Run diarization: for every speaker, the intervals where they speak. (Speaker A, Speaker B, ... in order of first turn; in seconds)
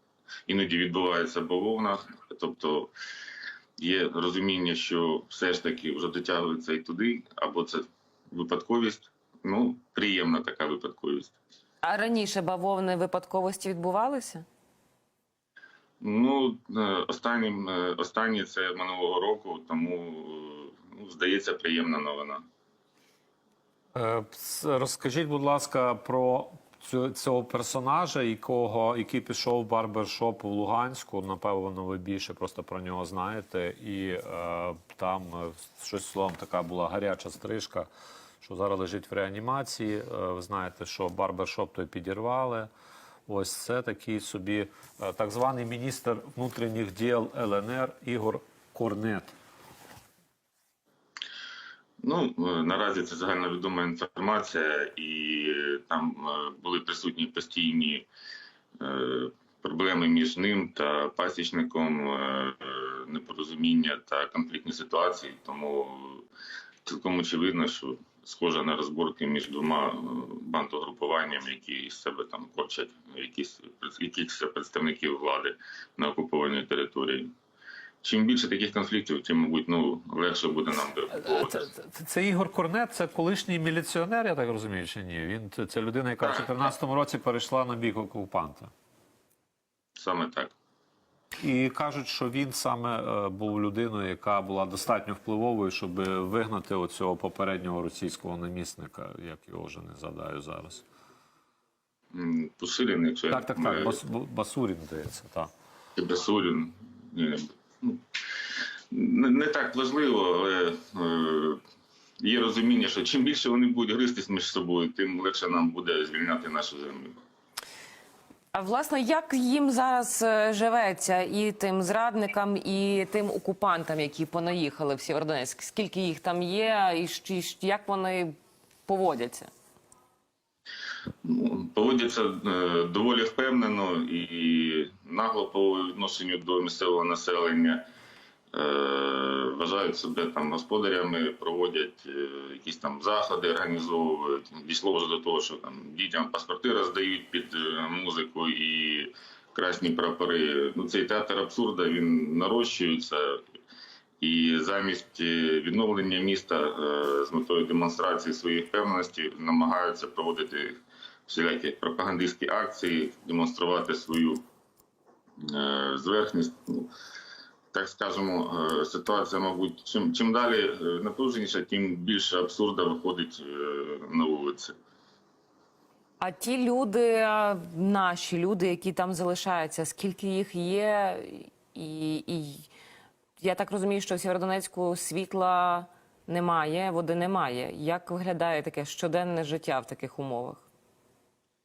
Speaker A: 0.5-2.9, 3.8-11.3, 16.0-22.4, 52.0-58.1, 58.8-66.2, 66.8-77.3, 78.0-81.7, 86.2-86.5, 90.0-90.5, 102.1-104.0, 106.0-108.0, 108.9-111.6, 112.2-117.2, 131.2-137.8, 138.5-153.4, 154.2-164.4, 165.4-166.9, 167.7-174.8
Speaker B: 11.8-14.4, 118.5-128.3, 128.9-129.5, 176.2-182.7, 183.4-190.6
Speaker C: 23.9-37.9, 38.4-42.7, 43.3-49.4, 81.3-88.7, 91.4-100.8, 103.3-105.5